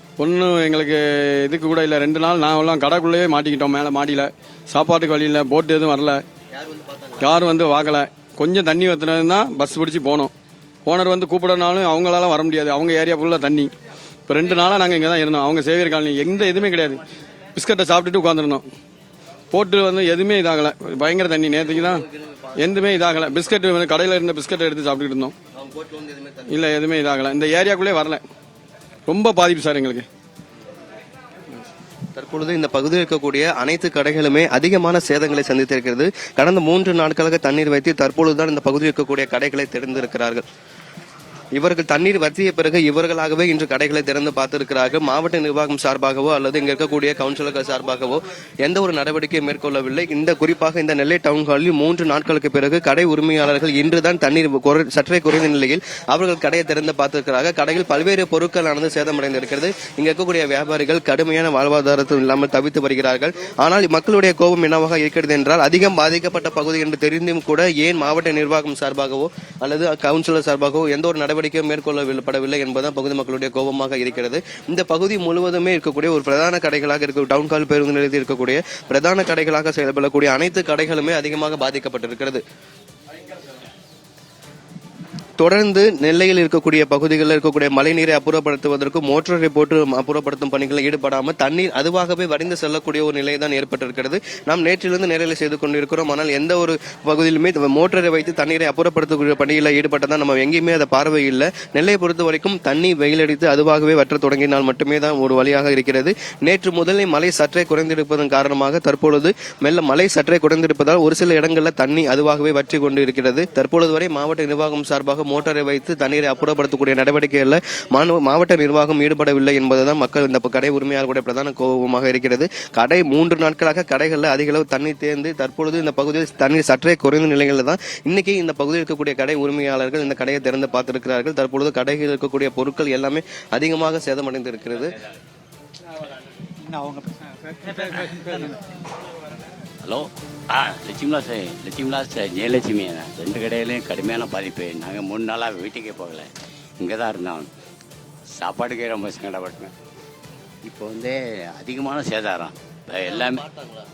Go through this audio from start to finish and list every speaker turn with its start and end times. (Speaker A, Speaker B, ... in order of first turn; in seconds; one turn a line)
Speaker A: 0.2-6.2
Speaker B: 6.6-7.2
Speaker A: 7.2-10.3
Speaker A: 10.9-13.7
Speaker A: 14.3-17.0
Speaker A: 17.6-18.7
Speaker A: 19.5-25.4
Speaker B: 25.6-26.5
Speaker A: 26.5-28.2
Speaker A: 29.1-30.1
Speaker B: 32.1-40.4
Speaker B: 41.5-82.4
Speaker B: 85.4-134.9
Speaker C: 139.8-146.3
Speaker C: 146.8-147.5
Speaker C: 148.4-149.7
Speaker C: 150.6-153.4
Speaker B: 153.2-153.7